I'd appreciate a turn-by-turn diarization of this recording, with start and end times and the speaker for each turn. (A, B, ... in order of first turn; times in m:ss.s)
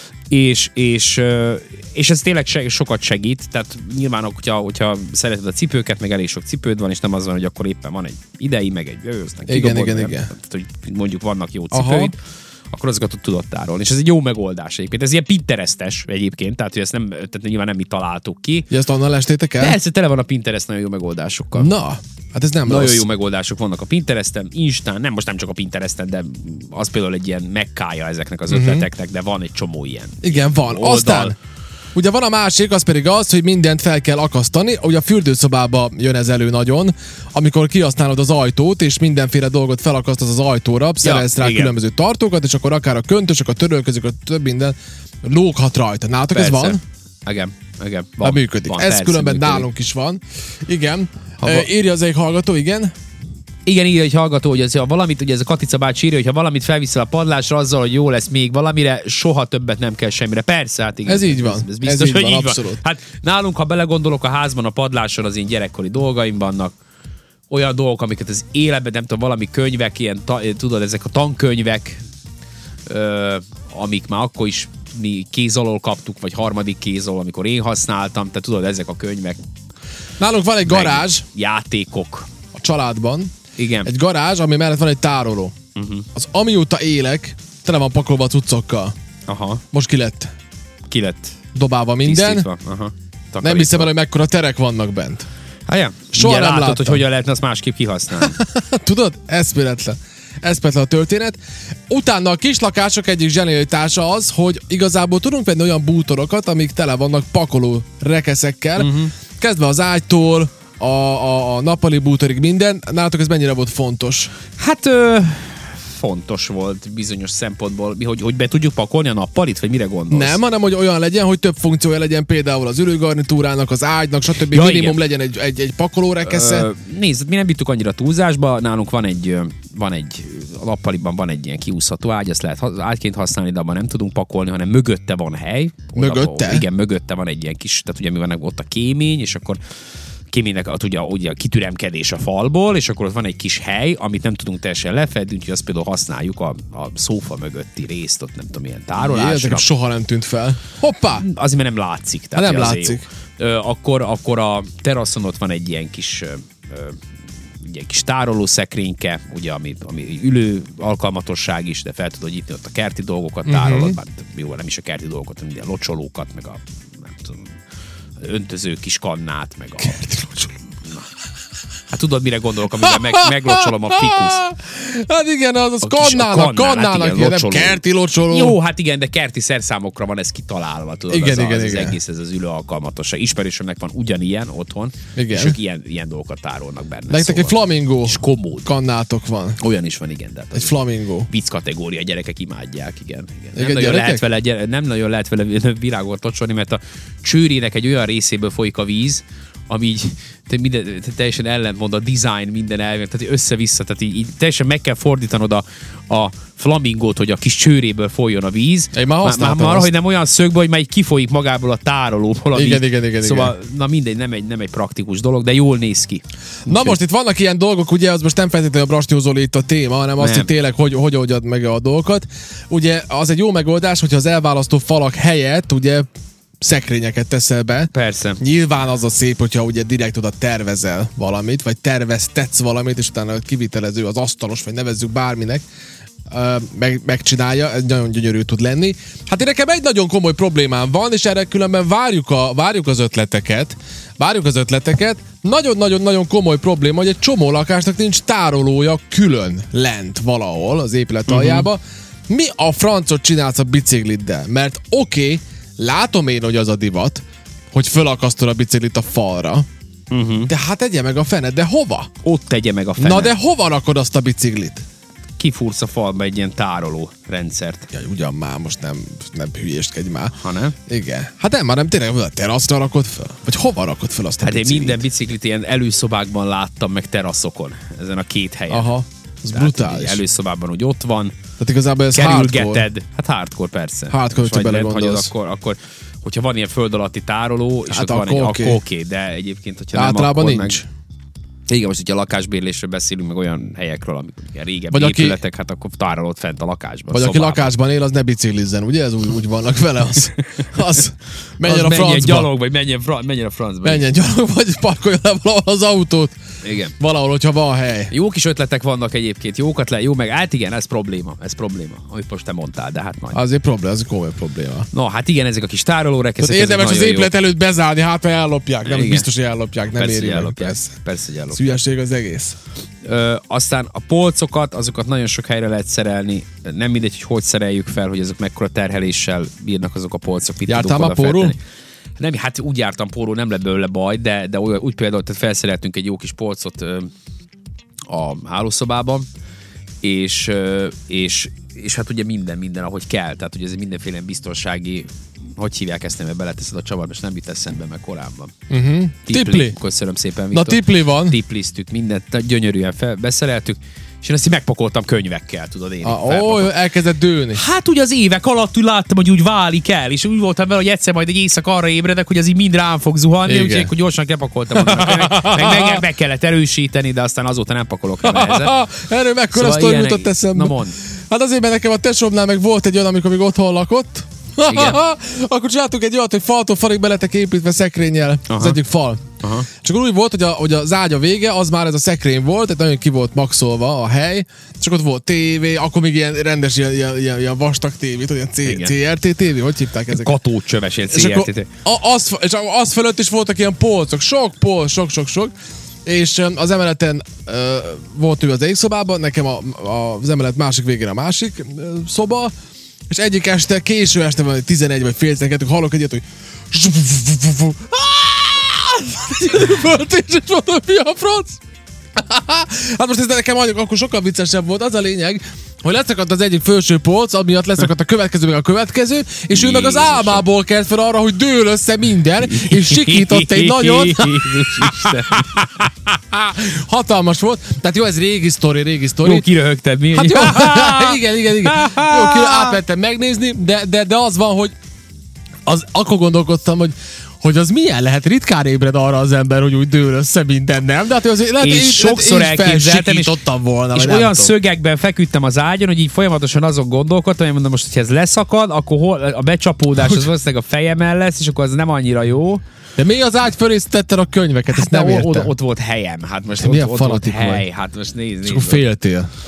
0:00.3-0:12.2 A
0:09.5-0:10.3 B
0:11.7-0:12.1 B
0:12.7-0:18.7 A
0:18.7-0:19.8 B
0:19.6-0:21.7 A
0:21.6-0:23.0 B
0:22.6-0:31.3 A
0:28.5-0:28.8 B
0:30.2-0:31.3 B
0:31.9-0:46.8 B
0:41.0-0:41.7 A
0:46.3-0:49.7 A
0:48.2-0:52.9 B
0:51.4-0:51.7 A
0:53.6-1:06.7 A
1:01.0-1:02.8 B
1:07.5-1:12.0 A
1:12.9-1:19.4 A
1:20.2-1:21.2 B
1:20.6-1:22.3 A
1:22.5-1:23.3 B
1:23.6-1:23.9 A
1:23.8-1:25.5 B
1:25.7-1:26.0 A
1:26.1-1:28.9 B
1:29.3-1:29.6 A
1:29.7-1:30.3 B
1:30.9-1:31.4 A
1:31.5-1:32.5 B
1:32.0-1:33.9 A
1:33.4-1:35.3 B
1:35.7-1:38.4 A
1:36.1-1:37.0 B
1:38.2-1:54.3 B
1:48.8-1:49.1 A
1:54.6-2:00.4 A
2:00.1-2:06.7 B
2:04.4-2:05.0 A
2:06.2-2:19.6 A
2:15.9-2:16.6 B
2:20.3-2:29.7 A
2:29.0-2:31.2 B
2:31.1-2:37.0 A
2:32.3-2:33.0 B
2:37.6-2:47.5 A
2:43.5-2:44.0 B
2:48.2-2:50.0 A
2:49.8-2:50.6 B
2:51.9-2:54.4 A
2:52.8-2:58.6 B
2:55.8-3:08.7 A
3:01.1-3:02.0 B
3:05.1-3:05.6 B
3:07.1-3:09.6 B
3:09.6-3:10.8 A
3:10.5-3:11.3 B
3:11.3-3:37.0 A
3:13.5-3:14.2 B
3:28.9-3:29.9 B
3:32.5-3:33.5 B
3:36.7-3:46.1 B
3:40.2-3:40.5 A
3:46.6-3:55.6 B
3:47.9-3:48.4 A
3:56.3-4:19.6 B
4:11.3-4:11.7 A
4:20.1-4:20.5 A
4:20.5-4:22.1 B
4:22.2-4:23.3 A
4:23.0-4:24.8 B
4:25.4-4:27.9 A
4:27.9-4:30.4 B
4:30.4-4:30.8 A
4:30.9-4:35.0 B
4:34.4-4:38.9 A
4:38.7-4:40.2 B
4:39.5-4:41.3 A
4:41.6-4:42.9 B
4:42.1-4:50.8 A
4:44.1-4:45.3 B
4:47.9-4:48.8 B
4:49.9-4:50.9 B
4:51.7-4:57.7 A
4:54.9-4:55.4 B
4:57.1-5:02.5 B
5:01.6-5:04.0 A
5:03.8-5:06.4 B
5:06.6-5:06.9 A
5:07.0-5:08.1 B
5:08.1-5:13.4 A
5:13.3-5:14.9 B
5:14.9-5:17.3 A
5:16.4-5:20.9 B
5:18.8-5:19.3 A
5:19.9-5:21.6 A
5:21.5-5:22.6 B
5:23.0-5:31.6 A
5:30.6-5:31.6 B
5:32.2-5:37.1 A
5:38.1-5:39.2 A
5:40.0-5:48.5 A
5:48.7-5:49.8 B
5:49.3-5:56.7 A
5:50.5-5:51.4 B
5:56.0-5:57.6 B
5:57.5-6:08.7 A
6:03.4-6:03.9 B
6:04.7-6:06.0 B
6:08.2-6:30.3 B
6:09.5-6:11.0 A
6:14.7-6:15.0 A
6:18.5-6:18.8 A
6:19.4-6:19.7 A
6:28.6-6:28.9 A
6:30.1-6:31.7 A
6:31.1-6:35.5 B
6:36.0-6:42.5 B
6:43.1-6:51.6 B
6:52.2-7:09.4 B
6:59.5-7:00.4 A
7:02.4-7:05.9 A
7:09.2-7:12.8 A
7:10.1-7:14.7 B
7:15.6-7:24.5 B
7:21.6-7:23.4 A
7:23.9-7:32.6 A
7:33.0-7:35.5 B
7:34.7-7:38.8 A
7:36.6-7:37.6 B
7:38.4-7:39.3 B